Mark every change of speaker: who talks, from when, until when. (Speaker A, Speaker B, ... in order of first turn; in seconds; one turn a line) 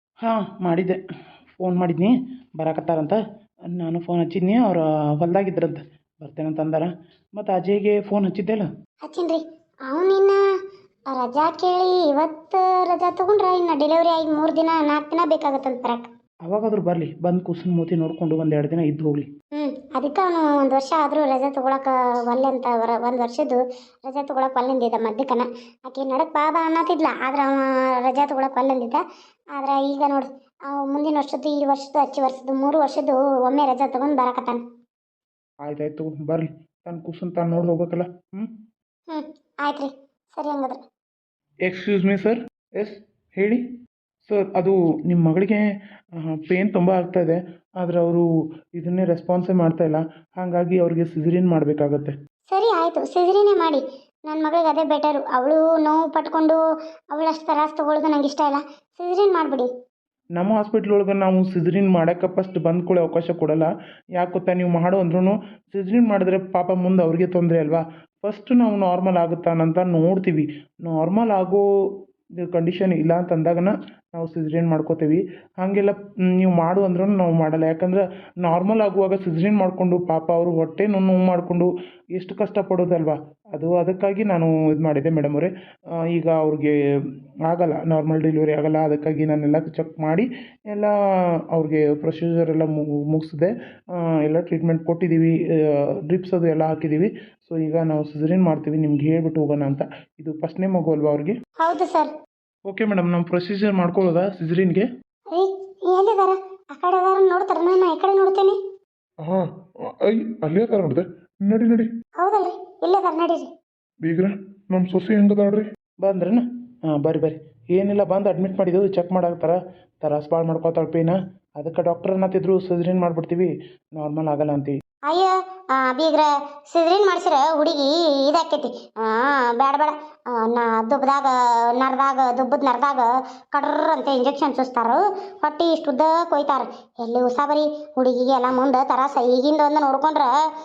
Speaker A: 0.2-1.0
Speaker A: 1.6-3.2
Speaker A: 3.7-8.7
Speaker B: 9.0-10.4
Speaker B: 11.1-16.1
Speaker A: 16.4-19.3
Speaker B: 19.6-29.0
Speaker B: 29.5-34.6
Speaker A: 35.6-38.5
Speaker B: 39.1-40.8
Speaker A: 41.7-43.6
Speaker A: 44.3-45.6
Speaker A: 46.2-48.2
Speaker A: 48.8-52.1
Speaker B: 52.5-56.6
Speaker B: 57.1-59.7
Speaker A: 60.4-71.6
Speaker A: 72.4-86.7
Speaker A: 87.5-90.9
Speaker A: 91.5-101.4
Speaker B: 101.6-102.1
Speaker A: 102.7-104.9
Speaker B: 105.3-108.6
Speaker C: 110.0-111.9
Speaker B: 112.2-113.5
Speaker C: 114.0-115.6
Speaker A: 116.0-124.8
Speaker B: 125.1-140.3